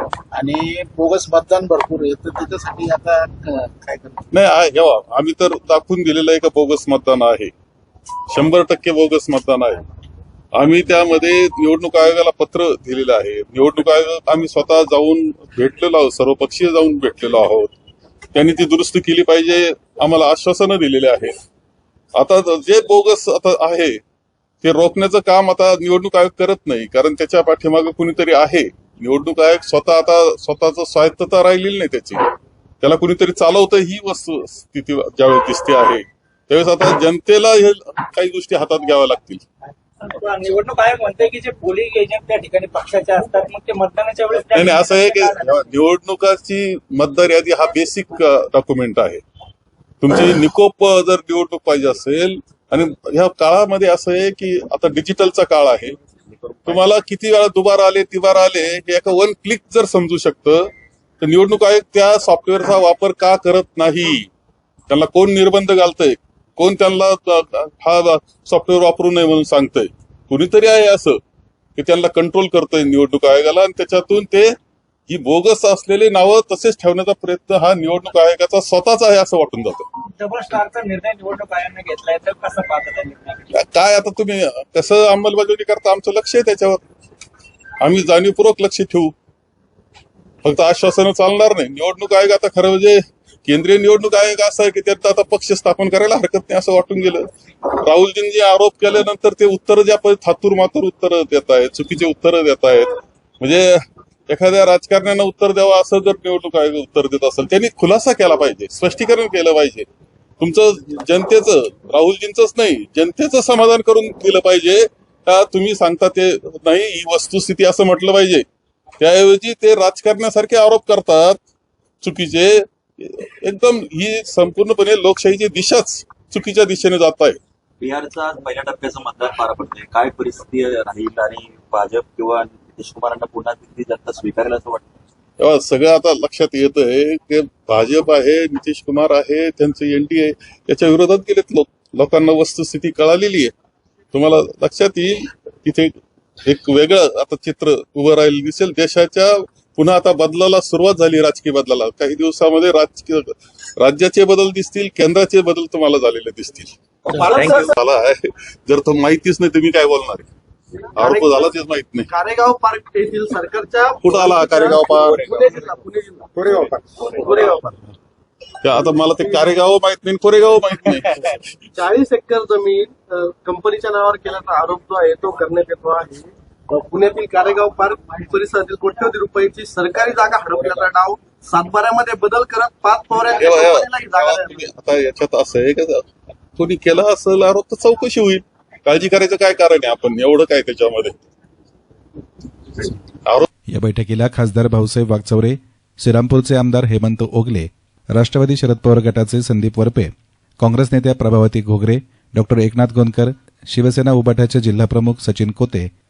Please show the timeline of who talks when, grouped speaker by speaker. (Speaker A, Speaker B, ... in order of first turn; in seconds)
Speaker A: 0.3-4.2
Speaker B: 4.3-7.5, 8.3-9.9, 10.5-17.7, 18.3-21.3, 22.1-24.0, 24.6-32.2, 32.8-39.4, 44.5-49.2, 50.0-56.0, 56.6-60.7, 61.2-64.3, 64.9-71.2, 71.8-74.5, 75.1-79.8, 83.5-86.8, 87.8-89.1, 90.4-109.9, 110.4-118.4, 119.0-121.4, 122.0-127.4, 135.4-143.5, 144.1-156.7, 157.3-160.3, 161.0-162.1, 164.0-165.3, 168.6-171.4, 183.3-186.0, 186.6-191.2
Speaker C: 40.0-45.7, 80.1-83.5
Speaker D: 127.8-134.8, 157.1-157.7
Speaker E: 157.1-157.7, 161.0-161.6, 162.1-167.8, 168.8-169.6, 171.7-184.6
Speaker F: 193.7-205.9